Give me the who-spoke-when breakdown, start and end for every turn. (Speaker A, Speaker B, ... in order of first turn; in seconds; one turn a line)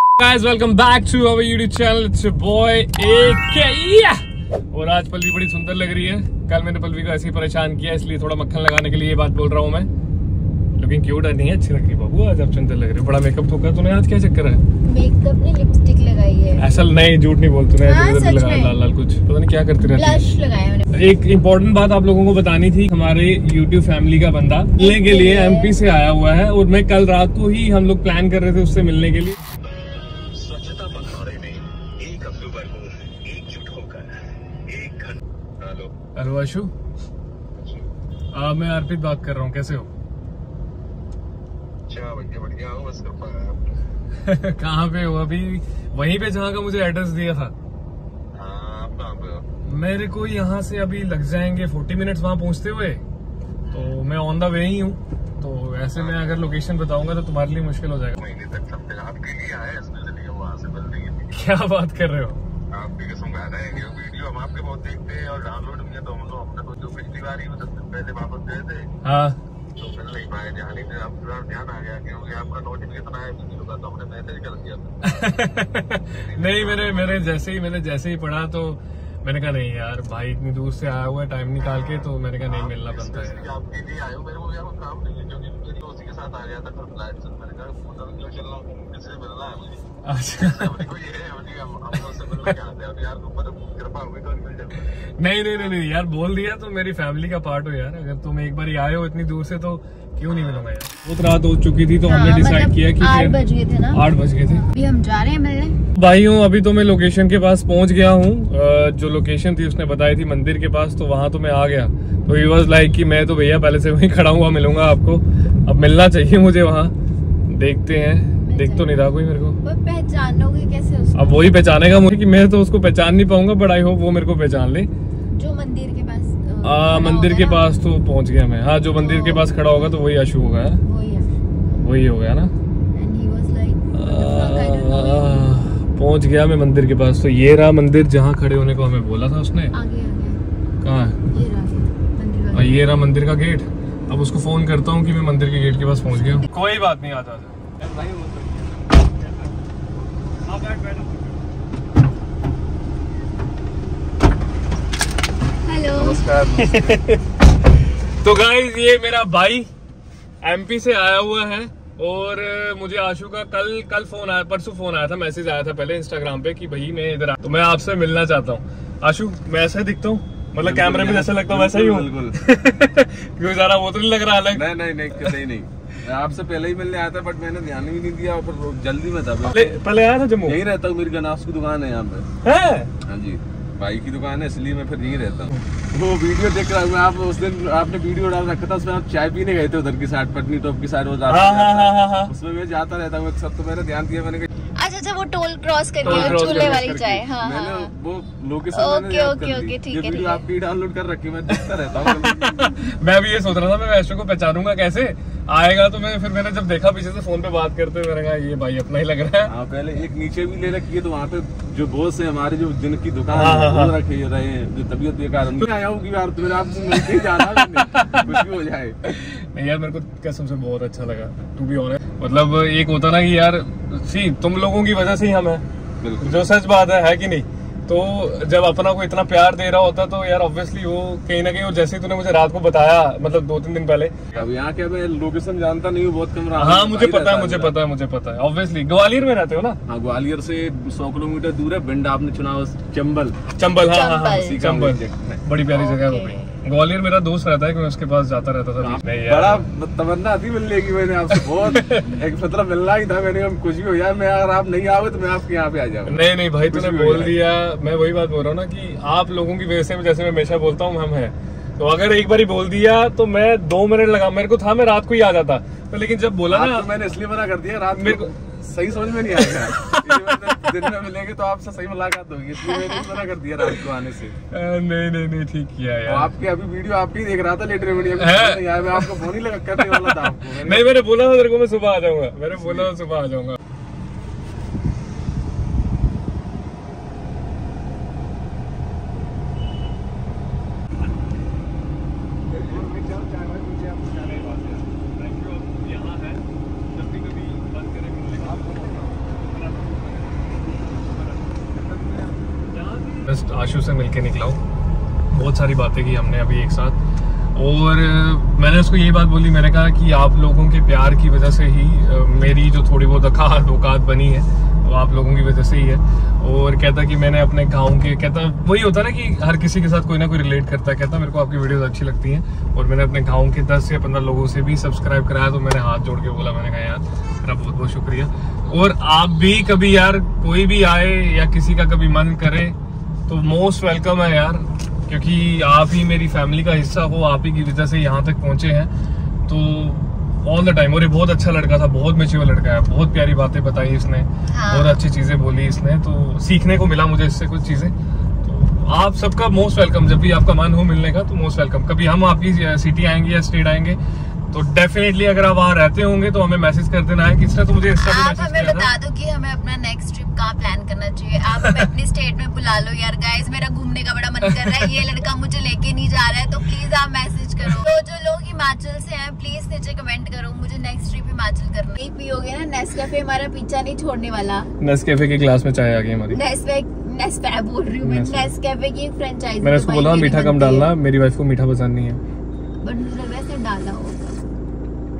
Speaker A: 0.2-4.2
Speaker A: 4.7-9.9
Speaker A: 10.8-14.6
Speaker B: 14.8-16.8
Speaker A: 16.6-20.2
Speaker B: 17.8-18.8
Speaker B: 19.8-21.0
Speaker A: 20.9-29.4
Speaker B: 24.8-25.8
Speaker C: 30.3-34.1
Speaker C: 34.7-35.9
Speaker A: 36.1-36.7
Speaker C: 37.6-37.8
Speaker A: 38.3-39.9
Speaker D: 41.9-43.5
Speaker A: 44.2-47.5
Speaker D: 48.4-49.3
Speaker A: 49.6-53.0
Speaker A: 53.7-58.2
Speaker D: 56.0-56.3
Speaker D: 58.2-61.3
Speaker A: 61.3-62.4
Speaker D: 62.7-68.7
Speaker A: 69.0-69.4
Speaker D: 69.8-73.5
Speaker C: 73.5-75.0
Speaker A: 75.0-83.5
Speaker C: 76.3-77.3
Speaker C: 82.5-89.8
Speaker A: 90.0-90.9
Speaker C: 90.4-93.4
Speaker D: 90.9-94.7
Speaker A: 91.9-92.5
Speaker A: 95.2-103.4
Speaker D: 100.3-100.6
Speaker B: 102.0-105.8
Speaker A: 103.9-104.7
Speaker A: 105.9-116.9
Speaker A: 117.5-119.6
Speaker B: 118.4-121.8
Speaker A: 121.1-124.9
Speaker B: 125.3-127.7
Speaker A: 126.6-130.8
Speaker B: 129.0-129.9
Speaker B: 130.8-131.3
Speaker A: 131.7-132.5
Speaker B: 132.9-135.5
Speaker A: 133.9-139.7
Speaker B: 139.7-140.4
Speaker A: 140.8-141.2
Speaker B: 141.3-142.9
Speaker A: 142.5-147.8
Speaker C: 147.8-148.7
Speaker A: 150.4-151.4
Speaker B: 155.6-156.2
Speaker C: 155.9-157.0
Speaker A: 156.6-157.2
Speaker A: 158.2-159.7
Speaker A: 160.4-175.3
Speaker C: 170.6-172.3
Speaker C: 174.5-179.7
Speaker A: 179.4-180.6
Speaker C: 180.4-182.3
Speaker A: 182.4-182.9
Speaker C: 183.0-194.5
Speaker A: 191.3-192.3
Speaker B: 194.7-197.9
Speaker A: 196.0-197.2
Speaker C: 196.0-202.7
Speaker B: 198.7-200.4
Speaker A: 201.5-209.5
Speaker C: 209.5-219.0
Speaker A: 213.3-213.9
Speaker A: 216.9-218.4
Speaker A: 219.0-225.6
Speaker C: 226.0-226.5
Speaker A: 226.2-234.4
Speaker C: 234.3-237.8
Speaker A: 236.6-239.8
Speaker C: 239.9-243.4
Speaker A: 243.6-249.6
Speaker B: 243.8-244.6
Speaker C: 244.4-245.4
Speaker B: 245.7-246.5
Speaker C: 248.8-257.4
Speaker A: 251.3-252.2
Speaker A: 256.1-266.9
Speaker C: 266.5-274.3
Speaker A: 268.0-268.3
Speaker A: 269.3-270.4
Speaker B: 272.6-273.2
Speaker A: 274.5-276.3
Speaker C: 276.1-280.9
Speaker A: 278.2-283.6
Speaker C: 282.5-282.9
Speaker C: 292.7-294.8
Speaker A: 294.1-301.6
Speaker C: 298.4-299.3
Speaker C: 301.7-302.4
Speaker A: 302.7-304.6
Speaker A: 305.3-307.0
Speaker A: 307.5-332.7
Speaker A: 333.3-338.9
Speaker A: 339.4-354.0
Speaker B: 344.5-345.0
Speaker A: 354.5-358.9
Speaker B: 358.0-374.7
Speaker A: 364.6-364.9
Speaker A: 374.8-376.4
Speaker B: 376.3-380.9
Speaker A: 378.0-378.5
Speaker A: 379.6-382.2
Speaker B: 382.8-384.4